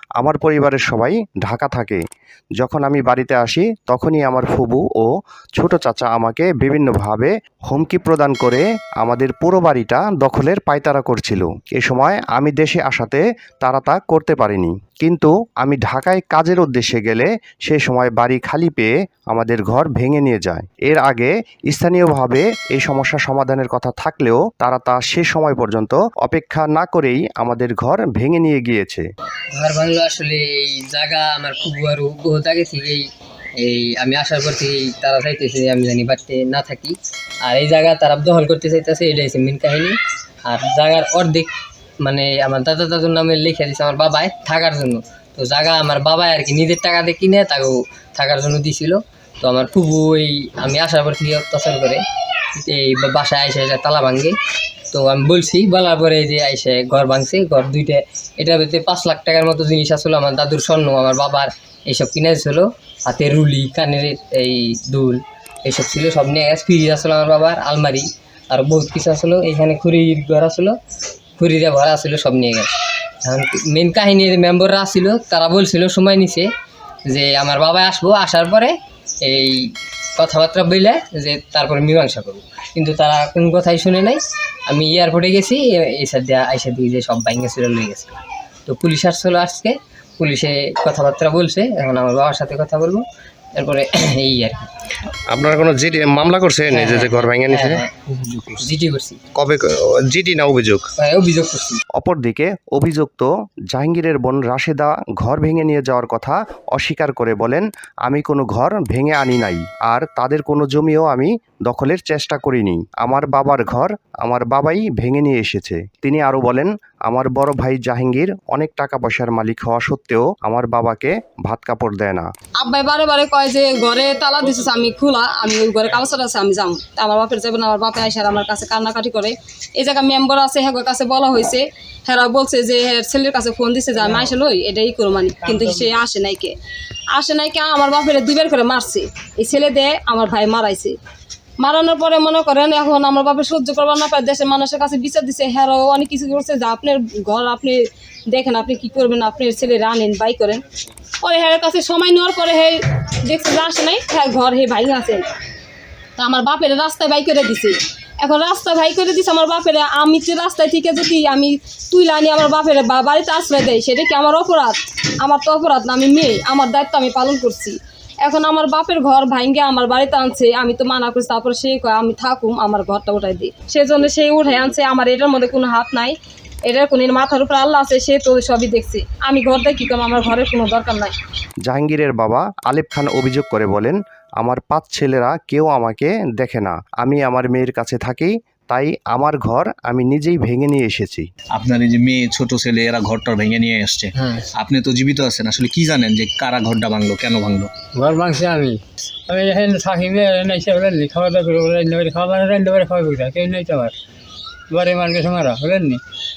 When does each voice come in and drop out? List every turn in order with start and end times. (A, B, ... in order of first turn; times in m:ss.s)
0:00.2-0:02.0 A
0:02.6-0:29.0 A
0:29.5-0:33.0 B
0:33.6-0:41.5 B
0:42.0-0:52.0 B
0:52.5-0:54.3 B
0:54.9-1:10.8 B
1:11.4-1:16.5 B
1:17.1-1:33.0 B
1:33.6-1:34.6 B
1:35.3-1:37.8 A
1:36.7-1:37.9 B
1:38.1-1:38.6 C
1:38.6-1:39.2 B
1:39.4-1:40.9 A
1:41.0-1:41.8 B
1:42.0-2:02.3 A
2:02.6-2:16.5 D
2:15.4-2:16.0 E
2:17.1-2:21.0 D
2:21.6-2:30.6 D
2:31.2-2:35.2 D
2:36.2-2:56.2 D
2:56.7-3:01.1 D
3:01.6-3:11.3 A
3:11.5-3:17.7 C
3:17.9-3:23.9 E
3:24.7-3:26.0 E